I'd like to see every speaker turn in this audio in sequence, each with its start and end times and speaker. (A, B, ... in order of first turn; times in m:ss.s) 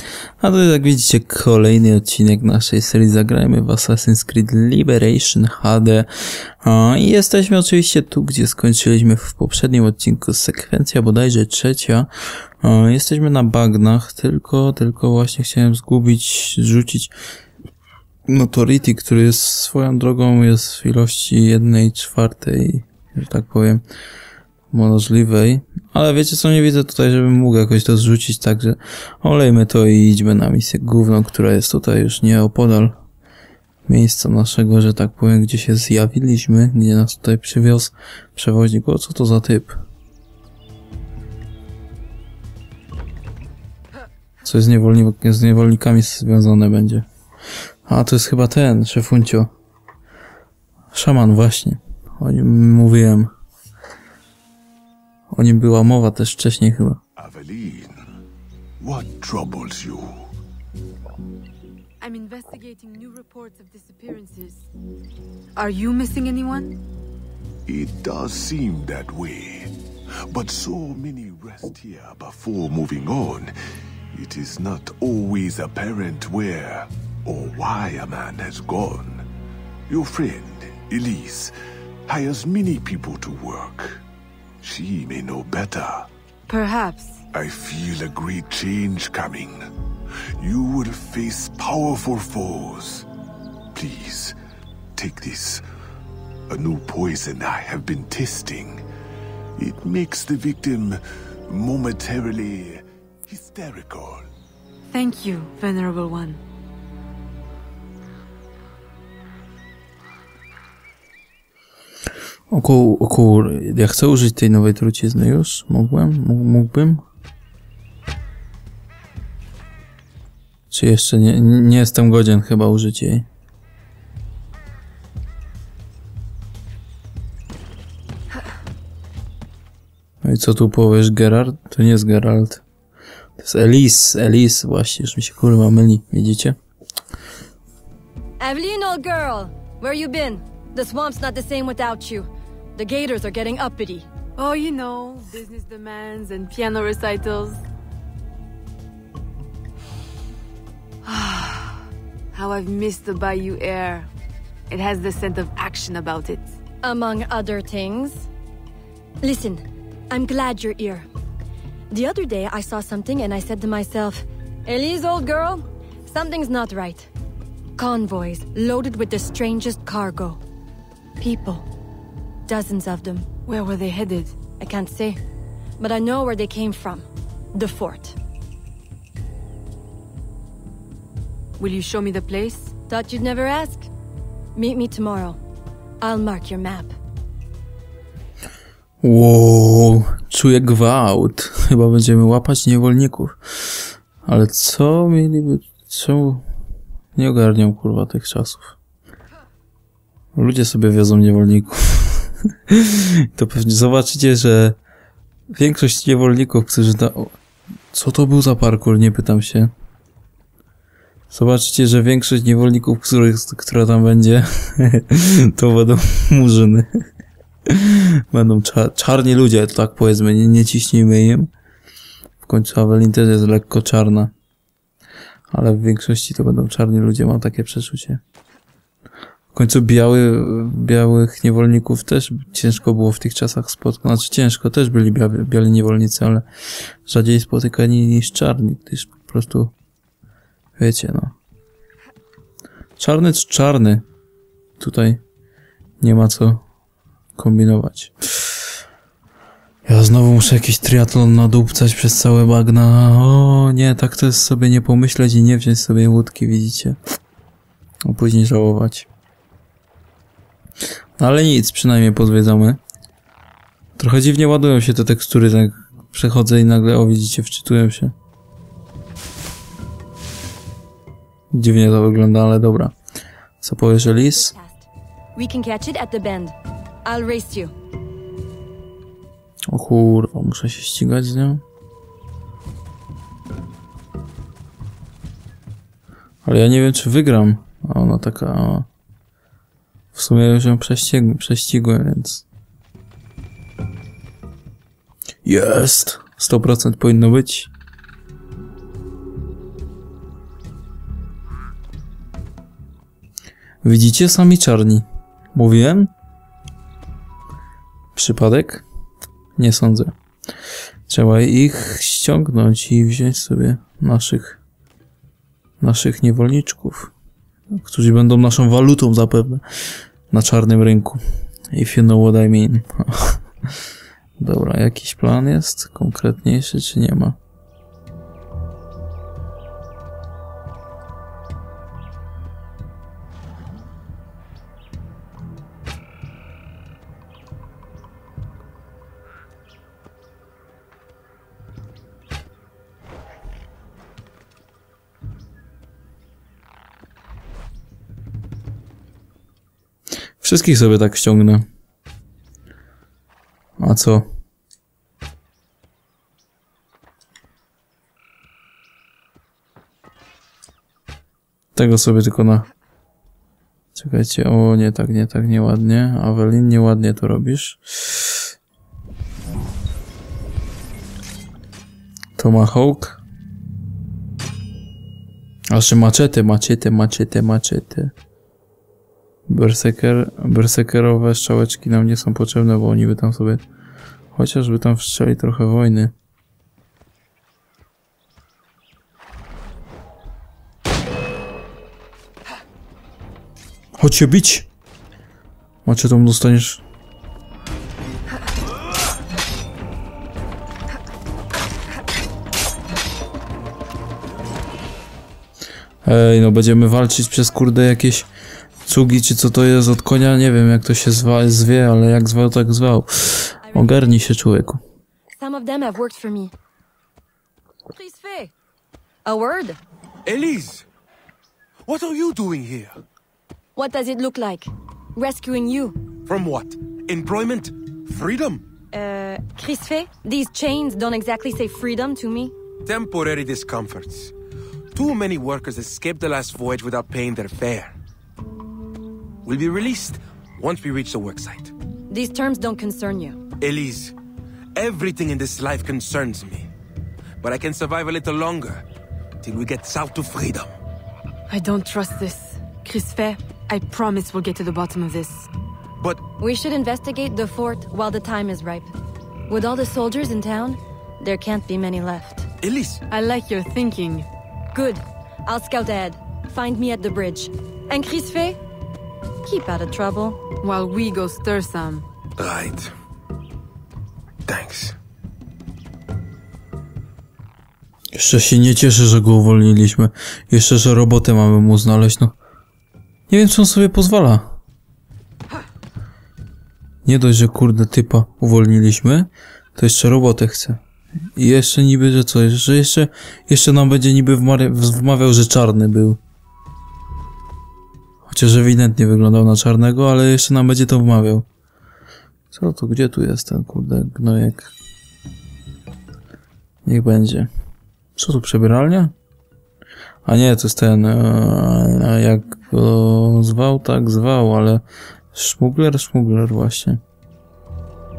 0:00.4-0:12.1 A
0:12.6-0:17.1 A
0:18.3-0:23.8 A
0:24.7-0:33.0 A
0:33.9-0:39.8 A
0:44.4-0:47.0 A
0:47.9-0:49.5 A
0:50.9-0:53.3 A
0:55.3-0:57.0 A
0:57.2-0:58.0 B
0:58.8-1:00.3 B
1:02.0-1:04.7 C
1:05.5-1:06.8 C
1:07.7-1:09.7 B
1:10.3-1:13.5 B
1:14.1-1:19.2 B
1:19.9-1:21.5 B
1:22.1-1:24.0 B
1:24.6-1:26.1 B
1:26.5-1:27.2 C
1:27.3-1:29.6 B
1:30.4-1:33.0 B
1:33.7-1:34.4 B
1:35.0-1:35.6 B
1:36.5-1:38.8 B
1:39.6-1:44.2 B
1:44.9-1:46.4 C
1:52.5-1:57.0 A
2:00.7-2:03.3 A
2:10.2-2:12.6 A
2:13.4-2:16.6 A
2:18.4-2:24.1 D
2:24.4-2:27.6 C
2:31.0-2:34.1 C
2:34.7-2:36.5 C
2:36.8-2:38.3 D
2:39.2-2:41.1 D
2:41.9-2:47.1 D
2:47.8-2:50.4 D
2:51.2-2:51.7 D
2:52.5-2:53.3 D
2:53.4-2:54.4 C
2:54.6-2:55.2 D
2:55.8-2:58.2 D
3:01.6-3:02.7 C
3:02.9-3:03.9 D
3:04.5-3:05.4 D
3:06.0-3:06.9 D
3:09.0-3:16.4 A
3:17.2-3:18.8 A
3:20.3-3:24.8 A
3:25.5-3:27.3 A
3:27.9-3:29.7 A
3:31.3-3:37.0 A
3:37.7-3:41.5 A
3:42.4-3:44.3 A
3:45.5-3:48.2 A
3:49.5-3:56.4 A
3:57.0-3:59.7 A
4:00.8-4:01.4 A
4:03.0-4:04.0 A
4:04.8-4:05.2 A
4:06.0-4:06.6 A
4:07.4-4:08.6 A
4:09.8-4:17.0 A
4:18.0-4:19.1 A
4:21.2-4:22.8 A
4:24.0-4:28.1 A
4:31.5-4:32.9 A
4:33.6-4:34.5 A
4:34.3-4:37.7 D
4:39.7-4:41.6 A
4:46.4-4:48.9 A
4:50.1-4:52.4 A
4:55.4-4:57.7 A
5:03.8-5:06.1 A
5:08.1-5:08.8 A
5:09.6-5:10.1 A
5:11.1-5:14.6 A
5:15.8-5:17.1 A
5:17.7-5:19.6 A
5:20.3-5:23.4 A
5:24.4-5:27.4 A
5:50.4-5:51.6 A
5:53.8-5:54.3 A
6:01.7-6:02.7 A
6:03.9-6:08.4 A
6:12.4-6:13.2 A
6:15.7-6:18.1 A
6:19.5-6:23.6 A
6:24.3-6:26.1 A
6:34.0-6:34.7 A
6:35.8-6:36.8 A
6:46.0-6:48.3 A
6:48.8-6:54.8 A
6:53.6-6:54.2 D
6:55.4-6:56.5 D
6:57.9-6:58.5 D
6:59.2-6:59.8 D
7:00.2-7:00.8 E
7:01.8-7:03.0 E
7:03.8-7:06.0 D
7:06.2-7:08.6 E
7:08.9-7:12.5 D
7:12.8-7:14.3 E
7:14.9-7:17.9 E
7:19.4-7:21.7 E
7:22.1-7:23.4 D
7:23.6-7:24.1 E
7:24.7-7:26.7 E
7:27.4-7:28.8 E
7:29.4-7:30.7 E
7:31.5-7:35.5 C
7:36.4-7:38.9 D
7:39.5-7:42.5 D
7:42.6-7:43.0 E
7:43.1-7:44.3 C
7:44.7-7:48.6 D
7:49.4-7:50.4 D
7:50.6-7:52.0 C
7:52.4-7:52.9 E
7:54.5-7:55.0 E
7:58.1-8:02.3 A
8:03.3-8:04.6 A
8:07.0-8:10.8 A
8:11.4-8:16.2 A
8:18.2-8:21.4 A
8:22.5-8:24.7 A
8:26.8-8:27.5 A
8:28.2-8:29.1 A
8:30.2-8:34.8 A
8:35.3-8:37.0 A